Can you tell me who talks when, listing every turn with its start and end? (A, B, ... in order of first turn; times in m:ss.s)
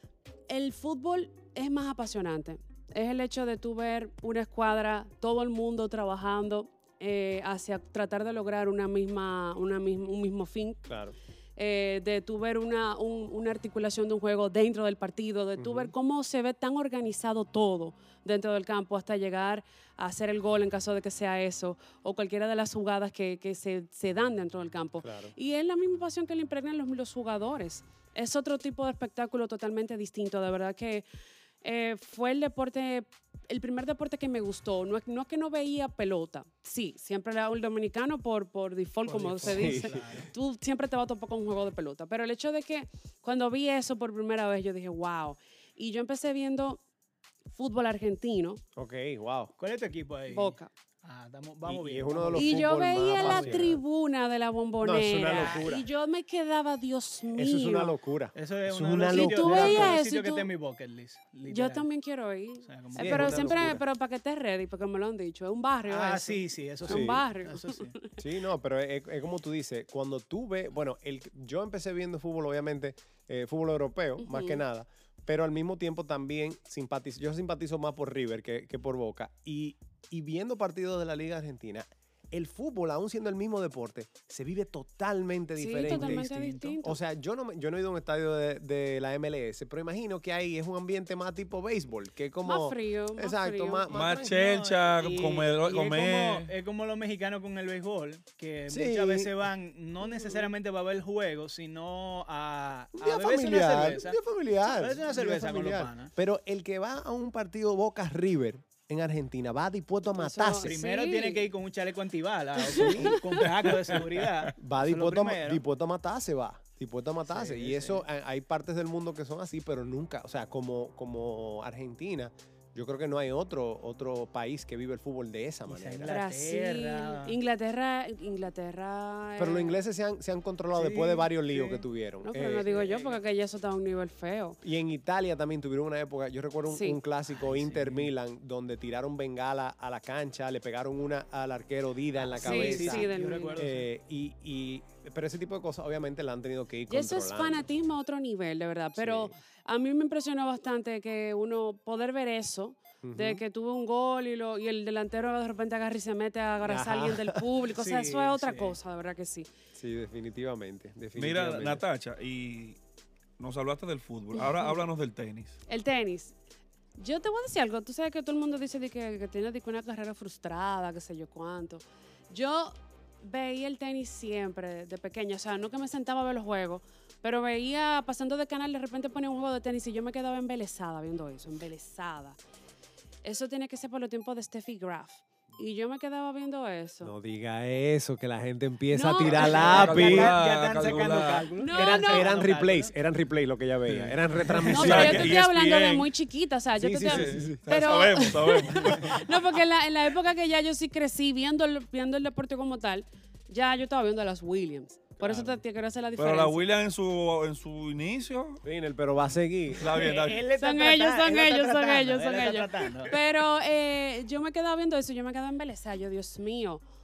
0:00.5-0:10.8 A
0:10.9-0:11.1 B
0:11.6-0:31.0 A
0:15.6-0:15.9 B
0:25.0-0:25.3 B
0:31.6-0:46.8 A
0:39.0-0:40.3 C
0:39.4-0:40.2 B
0:47.5-0:48.6 A
0:48.8-0:49.5 B
0:49.6-0:53.7 C
0:50.3-0:50.7 A
0:51.6-0:53.8 B
0:52.3-0:57.9 A
0:54.8-0:55.9 B
0:57.3-1:00.0 B
0:58.3-1:01.9 C
0:59.0-1:00.5 A
1:01.5-1:08.2 A
1:02.6-1:03.8 C
1:03.0-1:03.8 B
1:05.9-1:07.9 C
1:06.8-1:07.2 B
1:08.2-1:26.3 B
1:14.2-1:14.6 A
1:25.6-1:27.0 A
1:25.8-1:26.8 C
1:26.8-1:34.4 B
1:32.4-1:33.8 A
1:33.9-1:36.5 D
1:34.0-1:44.2 C
1:38.7-1:39.3 B
1:40.0-1:40.5 A
1:43.0-1:50.7 B
1:44.7-1:46.1 C
1:50.1-1:51.5 A
1:50.6-1:55.6 C
1:52.7-1:53.4 A
1:52.7-1:53.3 B
1:54.6-2:06.1 B
1:57.3-1:58.0 C
2:05.7-2:07.4 C
2:06.0-2:09.8 A
2:09.4-2:12.7 B
2:10.7-2:11.8 C
2:12.2-2:14.6 A
2:12.6-2:13.2 C
2:14.6-2:27.7 B
2:16.7-2:17.0 A
2:17.3-2:18.1 C
2:22.2-2:23.9 C
2:22.4-2:23.6 A
2:26.9-2:39.5 A
2:29.0-2:29.3 B
2:33.0-2:33.4 B
2:36.6-2:37.4 B
2:37.7-2:38.8 C
2:39.7-2:41.8 B
2:41.2-2:42.8 D
2:43.4-2:45.6 D
2:44.4-2:44.8 A
2:45.7-2:46.3 A
2:47.0-3:02.4 A
3:03.2-3:07.1 A
3:07.0-3:10.4 B
3:08.9-3:10.2 A
3:09.2-3:12.9 C
3:09.3-3:11.5 D
3:11.6-3:12.4 A
3:11.7-3:15.3 B
3:13.9-3:16.1 D
3:14.7-3:26.7 A
3:16.8-3:17.6 B
3:17.1-3:19.3 D
3:25.2-3:25.6 B
3:26.2-3:28.6 D
3:28.6-3:30.1 B
3:29.8-3:30.4 D
3:30.0-3:33.2 C
3:30.5-3:36.8 A